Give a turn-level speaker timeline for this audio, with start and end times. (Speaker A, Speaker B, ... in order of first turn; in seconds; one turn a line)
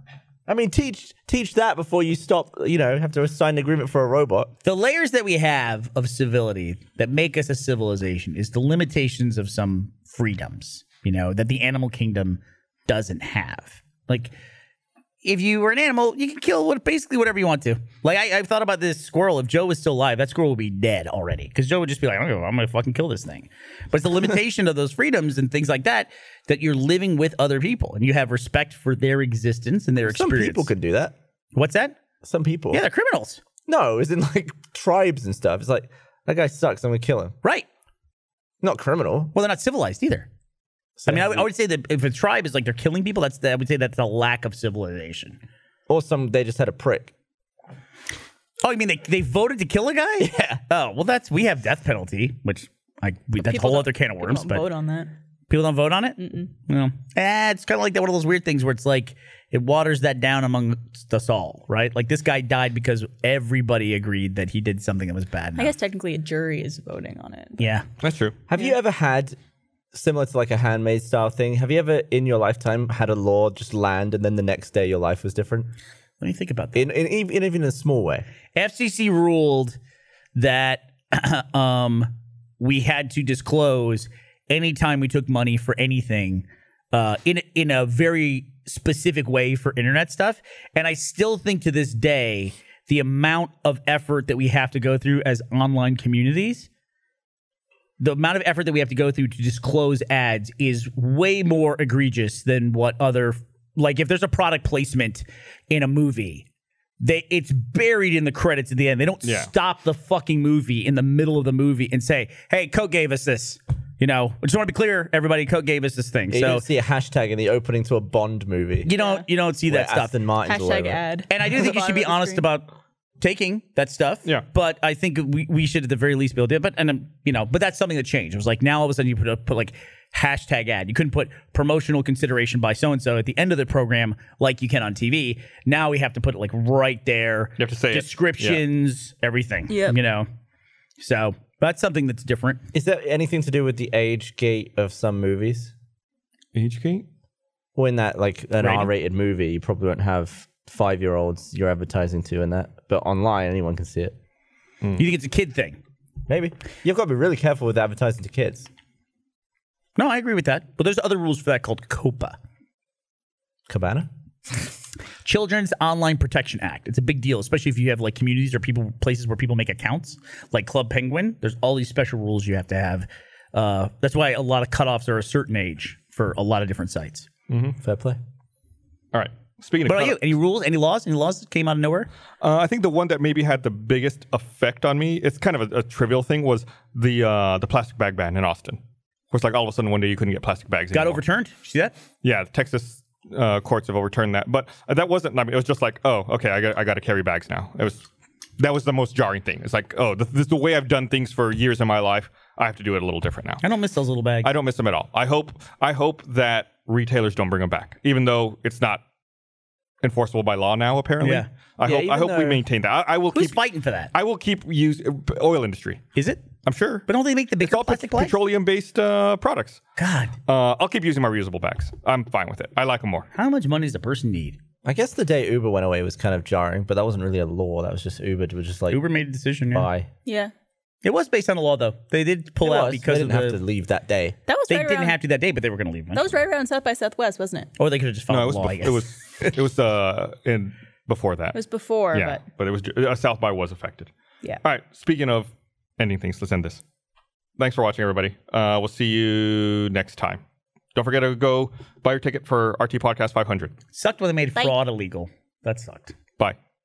Speaker A: 0.5-4.5
Speaker B: 4.6-14.3
Speaker B: 15.2-30.7
Speaker A: 30.0-31.1
Speaker B: 31.6-32.0
Speaker A: 32.2-32.8
Speaker B: 32.7-33.4
Speaker A: 33.7-37.4
Speaker A: 38.6-39.3
Speaker B: 39.3-40.3
Speaker A: 41.0-41.5
Speaker B: 41.1-45.4
Speaker A: 45.9-47.1
Speaker B: 48.6-54.6
Speaker A: 50.2-50.6
Speaker C: 53.4-55.1
Speaker B: 55.5-65.7
Speaker C: 56.2-56.5
Speaker C: 65.6-67.7
Speaker B: 67.6-67.9
Speaker D: 68.0-68.4
Speaker A: 68.5-69.4
Speaker A: 69.9-75.7
Speaker B: 76.2-76.9
Speaker A: 76.7-78.3
Speaker B: 78.5-79.8
Speaker B: 80.3-96.7
Speaker B: 98.0-106.5
Speaker B: 107.0-116.7
Speaker D: 109.2-109.5
Speaker A: 116.3-118.9
Speaker B: 118.8-120.2
Speaker C: 119.0-119.2
Speaker A: 119.7-121.0
Speaker C: 120.5-122.5
Speaker B: 121.3-140.3
Speaker D: 137.6-138.6
Speaker C: 139.7-140.0
Speaker B: 141.0-142.6
Speaker A: 142.7-145.7
Speaker D: 146.5-147.1
Speaker A: 147.8-154.2
Speaker B: 148.6-148.9
Speaker B: 155.0-155.8
Speaker A: 156.3-158.7
Speaker B: 160.0-162.4
Speaker A: 163.7-164.1
Speaker B: 165.2-177.3
Speaker D: 177.5-177.8
Speaker A: 177.8-178.2
Speaker D: 179.1-180.3
Speaker B: 179.9-182.1
Speaker D: 182.4-191.2
Speaker B: 190.9-191.9
Speaker D: 192.2-198.1
Speaker D: 198.6-203.6
Speaker B: 203.6-204.5
Speaker D: 204.4-209.0
Speaker D: 210.0-213.6
Speaker B: 211.2-211.5
Speaker A: 211.8-212.7
Speaker B: 213.3-214.1
Speaker D: 214.1-216.0
Speaker B: 216.2-216.5
Speaker D: 216.6-217.1
Speaker B: 217.1-218.4
Speaker D: 217.6-219.8
Speaker B: 220.0-220.4
Speaker D: 220.5-223.3
Speaker B: 223.3-224.6
Speaker A: 224.8-229.1
Speaker B: 228.9-229.9
Speaker A: 229.7-230.1
Speaker C: 230.3-230.5
Speaker B: 231.0-233.6
Speaker A: 232.6-234.4
Speaker C: 234.5-235.2
Speaker B: 234.7-236.3
Speaker C: 236.1-237.7
Speaker B: 237.8-239.5
Speaker D: 238.3-241.6
Speaker C: 241.5-242.4
Speaker D: 242.1-244.1
Speaker D: 244.6-246.8
Speaker D: 247.6-250.4
Speaker D: 250.9-253.7
Speaker B: 253.9-256.2